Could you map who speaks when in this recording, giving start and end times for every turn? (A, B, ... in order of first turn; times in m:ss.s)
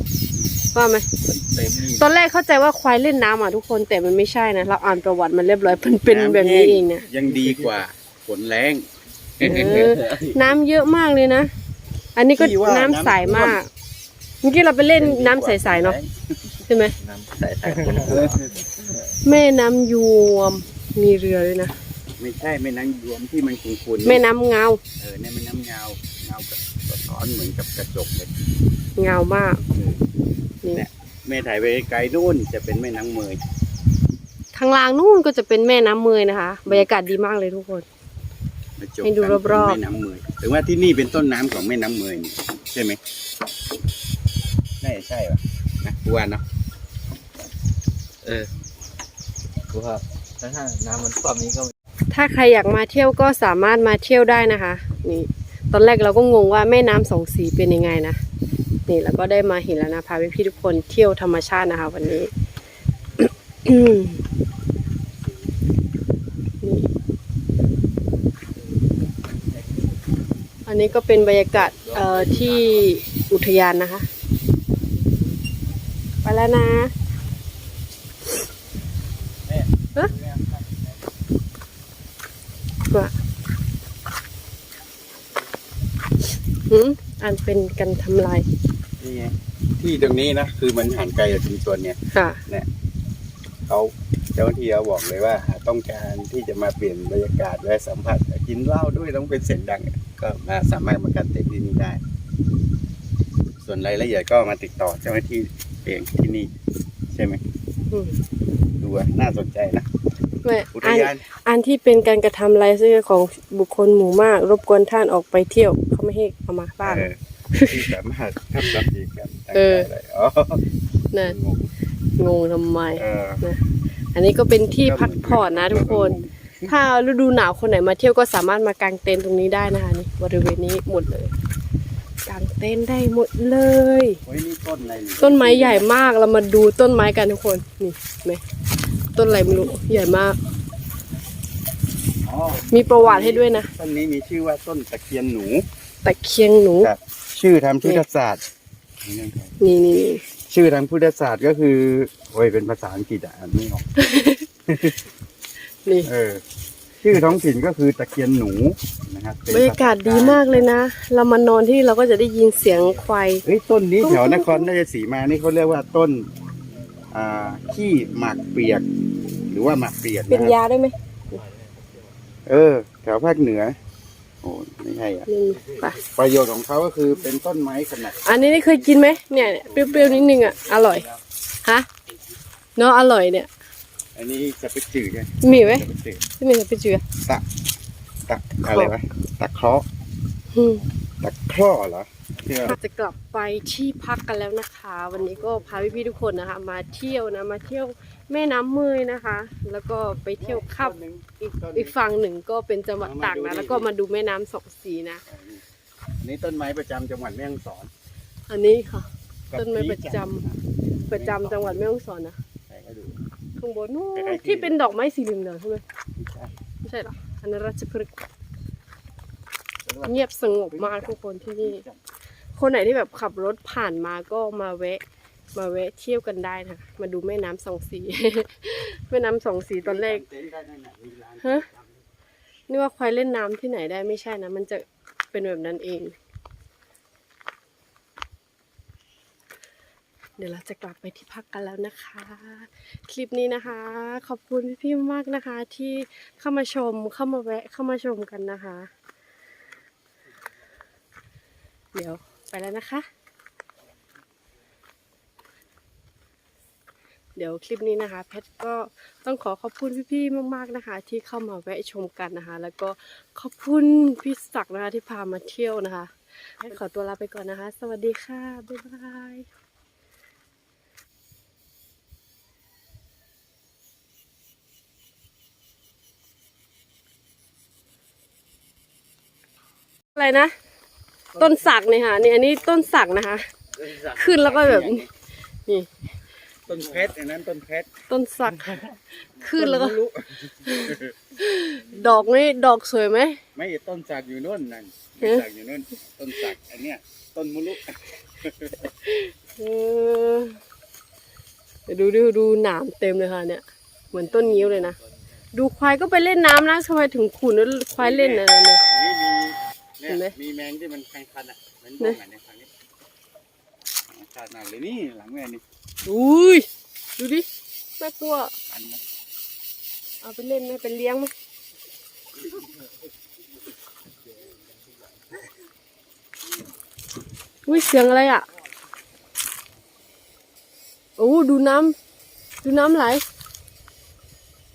0:00.7-0:01.1 A
0:01.2-0:02.1 B
0:02.0-0:07.0 A
0:05.7-0:08.9 C
0:07.2-0:07.8 B
0:09.4-0:09.9 C
0:09.4-0:11.5 A
0:09.6-0:10.4 B
0:12.2-0:13.7 A
0:12.4-0:13.6 C
0:14.4-0:16.0 A
0:15.0-0:16.1 C
0:16.7-0:16.9 A
0:17.0-0:18.5 B
0:17.8-0:18.5 C
0:19.2-0:21.8 A
0:22.2-0:24.2 C
0:24.0-0:24.8 A
0:25.0-0:28.3 C
0:29.0-0:29.6 A
0:29.8-0:30.0 C
0:30.7-0:33.4 C
0:34.5-0:37.9 A
0:38.8-0:43.0 C
0:39.0-0:39.8 A
0:44.8-0:46.4 C
0:48.2-0:48.5 B
0:49.7-0:51.7 B
0:52.1-0:58.2 A
0:58.9-1:02.3 A
1:03.2-1:04.2 A
1:06.6-1:06.9 A
1:10.7-1:14.1 A
1:11.7-1:12.9 B
1:16.2-1:16.9 A
1:20.0-1:20.5 B
1:26.7-1:28.5 A
1:29.0-1:32.7 C
1:32.1-1:32.4 A
1:33.7-1:42.0 C
1:43.6-1:46.5 C
1:47.1-1:47.4 C
1:48.8-1:49.9 C
1:50.4-1:57.9 A
1:50.7-1:51.2 C
1:56.8-2:00.6 C
1:59.5-1:59.9 A
2:01.2-2:01.7 C
2:02.2-2:03.6 A
2:03.0-2:03.4 C
2:04.1-2:11.3 A
2:04.8-2:06.7 C
2:12.3-2:14.2 A
2:14.2-2:15.9 C
2:15.2-2:18.4 A
2:19.2-2:20.4 A
2:22.3-2:25.7 C
2:22.7-2:23.7 A
2:26.0-2:26.9 A
2:26.8-2:28.4 C
2:29.0-2:29.5 C
2:29.6-2:30.2 A
2:30.5-2:33.8 C
2:34.0-2:34.4 A
2:34.7-2:35.0 C
2:35.8-2:36.1 A
2:36.0-2:36.4 C
2:37.0-2:40.7 C
2:39.5-2:43.4 A
2:42.7-2:43.0 B
2:43.4-2:46.3 C
2:44.0-2:44.7 A
2:47.1-2:48.9 C
2:49.5-2:50.6 C
2:50.3-2:51.0 A
2:51.3-2:52.2 B
2:52.5-2:53.8 C
2:54.4-2:55.3 C
2:55.3-2:56.0 A
2:56.0-3:01.0 C
2:58.2-3:01.1 A
3:02.8-3:03.5 A
3:04.2-3:06.2 C
3:05.4-3:05.9 A
3:06.4-3:07.0 A
3:08.3-3:09.8 C
3:08.6-3:08.9 A
3:10.5-3:10.8 A
3:11.2-3:12.8 C
3:12.6-3:21.0 A
3:20.4-3:21.9 C
3:21.7-3:25.2 A
3:23.0-3:23.9 C
3:25.3-3:25.6 C
3:26.2-3:27.9 C
3:28.5-3:30.4 A
3:29.5-3:31.9 C
3:31.1-3:32.4 A
3:32.7-3:33.2 C
3:33.6-3:35.8 A
3:34.2-3:34.9 C
3:36.2-3:36.5 C
3:36.8-3:38.1 A
3:39.9-3:42.0 C
3:40.0-3:41.8 A
3:42.6-3:45.0 A
3:45.5-3:50.2 A
3:49.8-3:51.9 C
3:52.7-3:56.2 A
4:00.4-4:08.9 A
4:11.9-4:13.1 A
4:17.4-4:29.5 A
4:40.2-4:40.5 A
4:41.4-4:45.1 A
4:43.8-4:45.1 C
4:46.7-4:47.9 C
4:48.1-4:50.0 A
4:49.4-4:51.1 C
4:50.6-4:53.4 A
4:53.6-4:58.8 C
4:59.0-5:00.6 A
5:01.9-5:05.0 A
5:04.1-5:05.2 B
5:05.5-5:08.8 A
5:08.0-5:12.7 C
5:10.1-5:10.3 A
5:14.1-5:15.6 C
5:16.0-5:16.7 A
5:17.2-5:17.5 A
5:18.0-5:18.5 A
5:18.7-5:19.0 C
5:20.2-5:21.3 A
5:27.7-5:28.5 A
5:31.2-5:32.0 A
5:32.6-5:33.2 A